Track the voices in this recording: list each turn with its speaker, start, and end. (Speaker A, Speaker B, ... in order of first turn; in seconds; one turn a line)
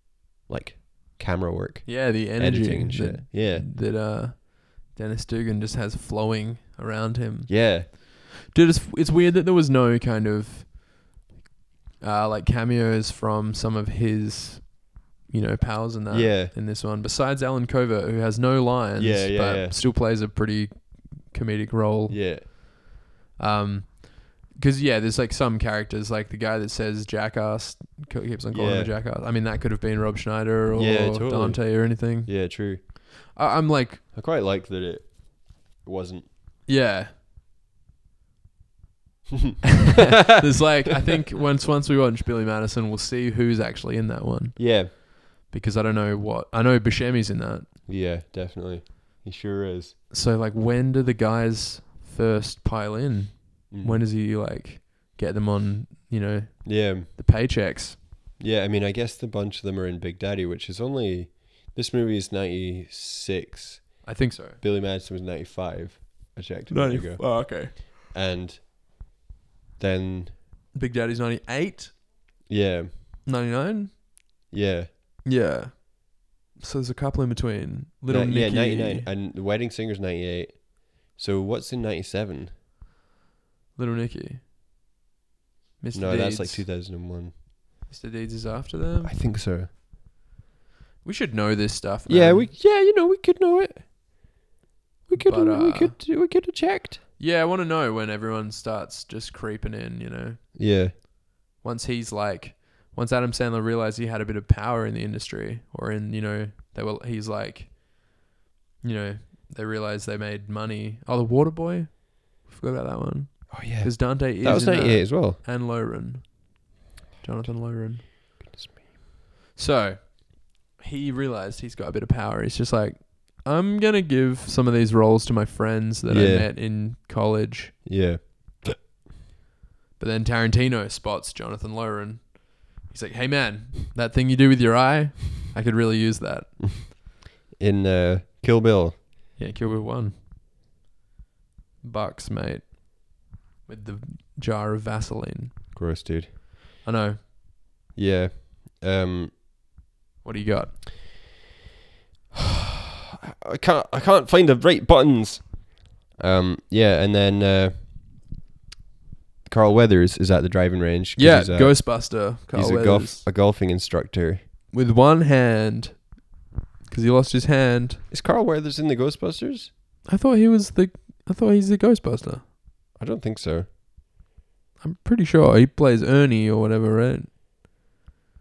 Speaker A: 0.5-3.7
Speaker B: 1.9-10.8
Speaker A: 7.5-7.9
Speaker B: 12.0-22.8
Speaker A: 16.1-16.5
Speaker A: 19.0-19.8
Speaker A: 22.1-22.4
Speaker B: 23.4-34.0
Speaker A: 28.5-28.9
Speaker A: 30.7-32.8
Speaker A: 34.1-36.3
Speaker B: 36.6-37.1
Speaker A: 39.3-40.6
Speaker B: 39.8-47.7
Speaker A: 44.6-44.9
Speaker A: 47.9-49.9
Speaker B: 50.1-58.0
Speaker A: 53.7-54.0
Speaker A: 56.6-57.1
Speaker A: 58.4-68.7
Speaker B: 64.0-64.6
Speaker B: 66.7-67.9
Speaker A: 69.8-70.4
Speaker B: 70.7-72.0
Speaker A: 72.5-72.9
Speaker B: 73.2-74.0
Speaker A: 74.5-74.9
Speaker B: 75.2-79.1
Speaker A: 78.1-82.5
Speaker B: 83.8-84.4
Speaker B: 85.8-86.7
Speaker A: 85.9-87.3
Speaker B: 87.9-89.2
Speaker A: 89.0-89.7
Speaker B: 91.0-92.5
Speaker A: 92.1-93.9
Speaker A: 95.1-97.0
Speaker B: 95.1-96.0
Speaker B: 97.2-101.0
Speaker A: 100.5-100.9
Speaker B: 101.6-108.2
Speaker B: 108.8-118.4
Speaker A: 113.5-115.4
Speaker A: 118.5-118.8
Speaker B: 119.5-127.8
Speaker A: 126.1-126.5
Speaker A: 127.8-128.7
Speaker B: 130.0-136.6
Speaker A: 136.6-136.9
Speaker A: 137.5-139.0
Speaker B: 139.4-140.1
Speaker B: 141.8-145.6
Speaker A: 145.7-146.3
Speaker B: 146.8-147.2
Speaker A: 147.9-149.3
Speaker B: 150.2-150.8
Speaker A: 152.3-152.7
Speaker A: 153.3-158.3
Speaker A: 159.4-164.4
Speaker B: 161.2-163.2
Speaker B: 164.7-166.3
Speaker B: 166.8-168.0
Speaker A: 168.1-169.7
Speaker B: 170.1-172.4
Speaker A: 172.9-173.7
Speaker B: 174.8-177.3